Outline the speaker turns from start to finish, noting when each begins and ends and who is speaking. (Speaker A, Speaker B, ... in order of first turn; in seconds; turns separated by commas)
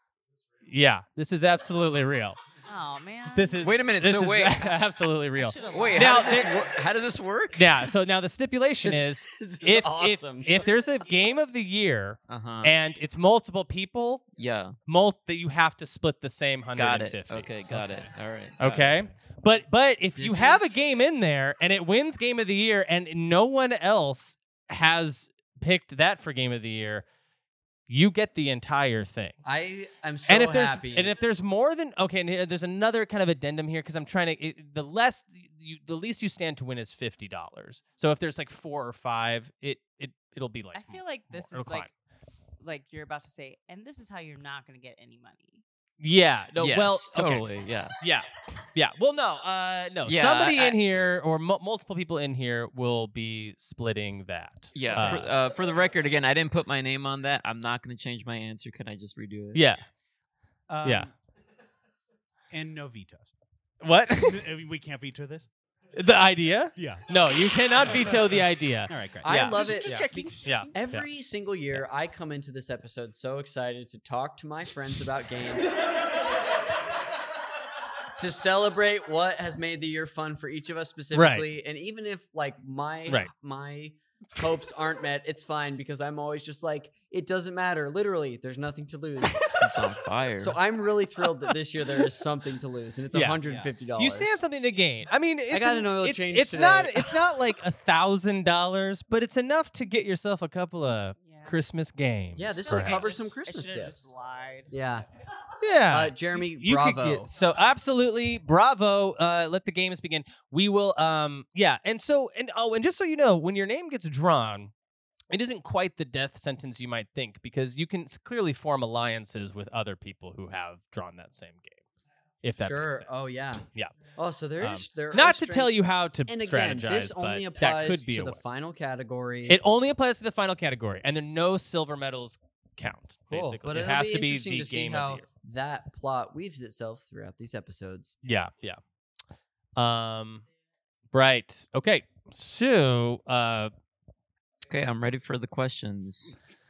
Speaker A: 0.6-2.4, Speaker B: 2.6-3.6, Speaker A: 3.3-6.5, Speaker C: 3.6-4.8, Speaker B: 5.3-6.5, Speaker C: 5.7-7.9, Speaker A: 7.5-14.2, Speaker D: 8.8-10.6, Speaker C: 12.3-12.7, Speaker C: 14.4-14.8, Speaker A: 14.8-17.8, Speaker C: 16.8-19.0, Speaker A: 18.6-27.0, Speaker D: 20.1-20.7, Speaker A: 27.9-29.4, Speaker D: 29.4-31.2, Speaker A: 30.3-41.9, Speaker B: 40.7-41.9, Speaker B: 42.6-45.6, Speaker A: 46.0-47.5, Speaker C: 46.6-48.0, Speaker A: 48.0-55.3, Speaker C: 50.0-50.8, Speaker C: 54.7-59.6, Speaker A: 59.5-59.8, Speaker E: 60.7-61.1, Speaker A: 60.8-61.1, Speaker E: 62.5-63.3, Speaker E: 63.8-65.5, Speaker A: 63.9-64.4, Speaker A: 65.9-71.1, Speaker E: 66.8-67.0, Speaker E: 67.8-70.7, Speaker D: 69.2-75.8, Speaker D: 78.2-89.6, Speaker A: 81.1-81.5, Speaker C: 89.6-90.6, Speaker D: 90.3-94.4, Speaker A: 93.1-93.4, Speaker A: 93.9-103.0, Speaker D: 95.5-97.2, Speaker B: 101.2-101.5, Speaker D: 102.3-104.1, Speaker B: 102.5-104.7, Speaker D: 104.7-105.0, Speaker A: 105.6-114.7, Speaker D: 105.9-107.3, Speaker A: 115.3-121.8, Speaker A: 122.4-123.9, Speaker D: 122.6-123.6, Speaker D: 124.2-129.6, Speaker A: 124.6-128.4, Speaker A: 129.5-135.2, Speaker D: 133.3-138.1, Speaker A: 138.2-138.8, Speaker A: 139.8-140.4, Speaker A: 141.1-143.7, Speaker C: 144.7-146.3